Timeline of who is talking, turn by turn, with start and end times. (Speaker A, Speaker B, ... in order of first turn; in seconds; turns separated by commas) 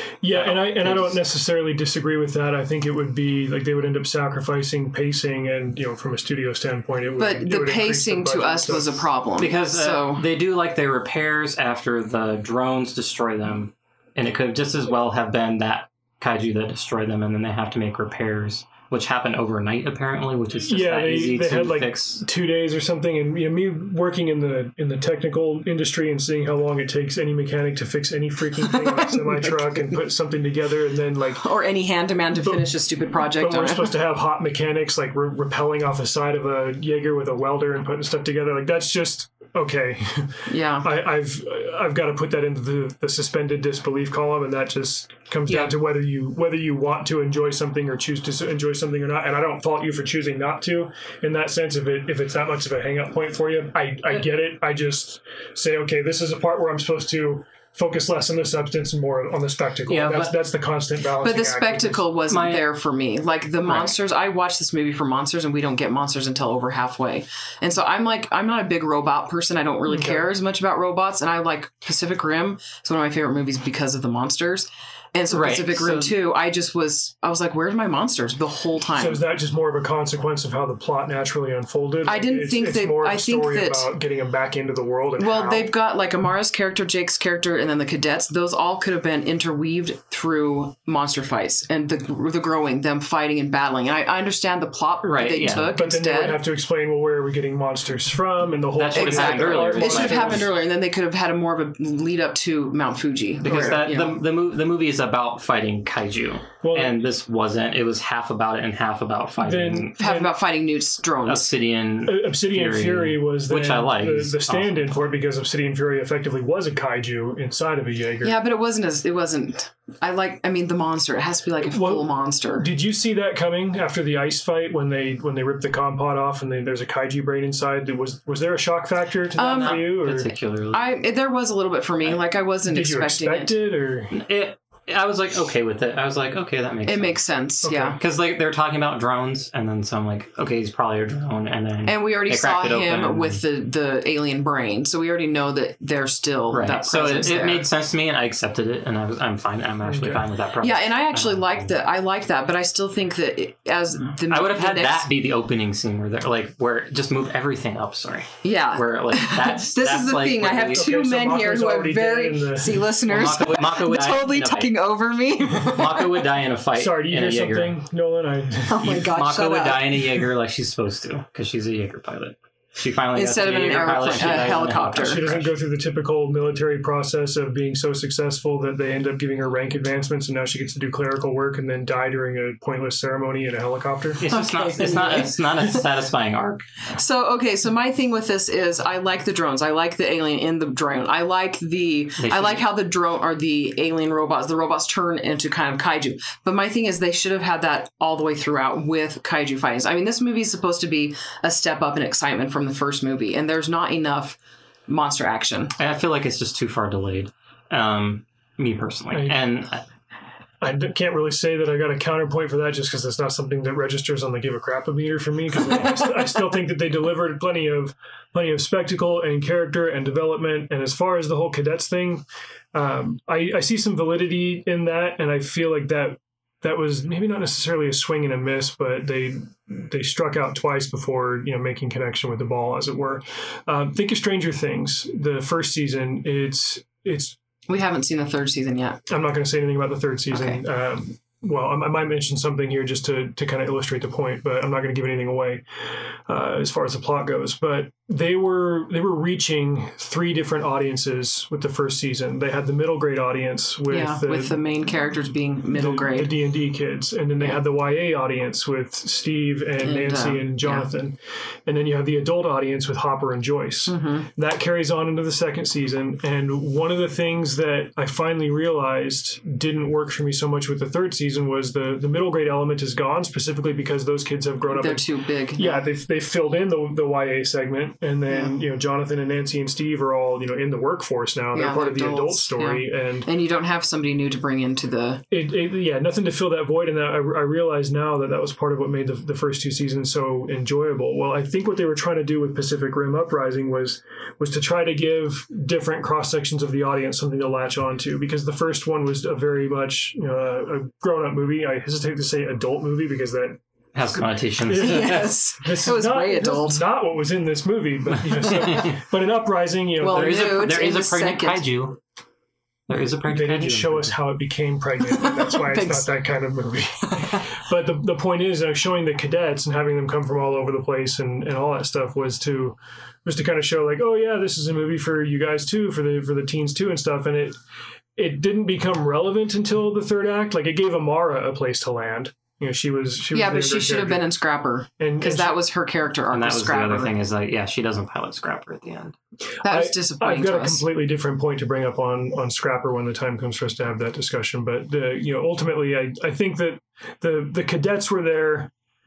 Speaker A: 0.2-9.1, Speaker B: 0.3-1.2, Speaker C: 7.2-10.2, Speaker B: 9.4-22.2, Speaker A: 20.6-31.4, Speaker C: 28.6-30.0, Speaker C: 31.4-33.9, Speaker A: 32.4-32.7, Speaker A: 33.3-62.0, Speaker C: 40.5-40.9, Speaker B: 59.9-60.3, Speaker C: 61.2-79.2, Speaker B: 62.3-62.7, Speaker B: 63.6-63.9, Speaker A: 69.9-70.3, Speaker B: 75.3-76.2, Speaker A: 79.0-85.7, Speaker C: 82.0-83.9, Speaker C: 85.2-96.4, Speaker B: 95.0-95.7, Speaker A: 95.7-100.5, Speaker B: 98.8-100.5, Speaker C: 98.9-104.2, Speaker B: 103.4-109.9, Speaker A: 103.5-103.8, Speaker A: 106.6-106.9, Speaker A: 109.4-110.3, Speaker C: 110.0-111.5, Speaker B: 111.2-115.0, Speaker A: 112.0-118.4, Speaker C: 118.2-122.7, Speaker A: 121.6-130.3, Speaker C: 129.3-129.9, Speaker B: 129.4-130.9, Speaker C: 130.7-133.5, Speaker A: 132.7-134.1, Speaker B: 134.1-137.2, Speaker C: 136.8-138.0, Speaker A: 137.6-138.0, Speaker B: 138.0-143.4, Speaker C: 141.8-147.7, Speaker B: 146.5-151.7, Speaker A: 149.8-150.2, Speaker C: 150.6-155.1, Speaker B: 154.3-160.9, Speaker C: 158.4-166.1, Speaker A: 160.7-162.9, Speaker B: 163.1-164.7, Speaker B: 165.5-167.7, Speaker A: 166.7-168.9, Speaker C: 168.7-170.1, Speaker B: 168.8-175.5, Speaker C: 173.1-175.2, Speaker A: 175.0-184.2, Speaker B: 184.2-186.6, Speaker C: 184.2-185.8, Speaker C: 186.9-204.4, Speaker B: 192.2-192.7, Speaker C: 204.9-205.7, Speaker B: 205.8-209.8, Speaker A: 209.1-209.4, Speaker A: 210.6-237.4, Speaker C: 237.7-239.0, Speaker A: 239.1-254.6, Speaker C: 240.3-240.6, Speaker C: 253.9-256.3, Speaker A: 255.7-283.3, Speaker C: 259.8-260.9, Speaker C: 263.9-264.3, Speaker C: 274.7-275.9, Speaker C: 278.3-278.6, Speaker C: 281.5-285.2, Speaker A: 285.3-303.6, Speaker B: 303.9-305.4, Speaker A: 304.1-310.4, Speaker C: 304.8-306.9, Speaker B: 308.4-309.0, Speaker C: 310.0-311.6, Speaker B: 310.1-312.0, Speaker B: 312.9-314.1, Speaker A: 313.3-327.6, Speaker C: 315.1-316.1, Speaker C: 317.1-317.4, Speaker A: 328.1-334.2, Speaker C: 333.3-337.1, Speaker A: 335.0-335.6, Speaker B: 336.3-339.1, Speaker C: 339.6-340.8, Speaker A: 339.6-348.7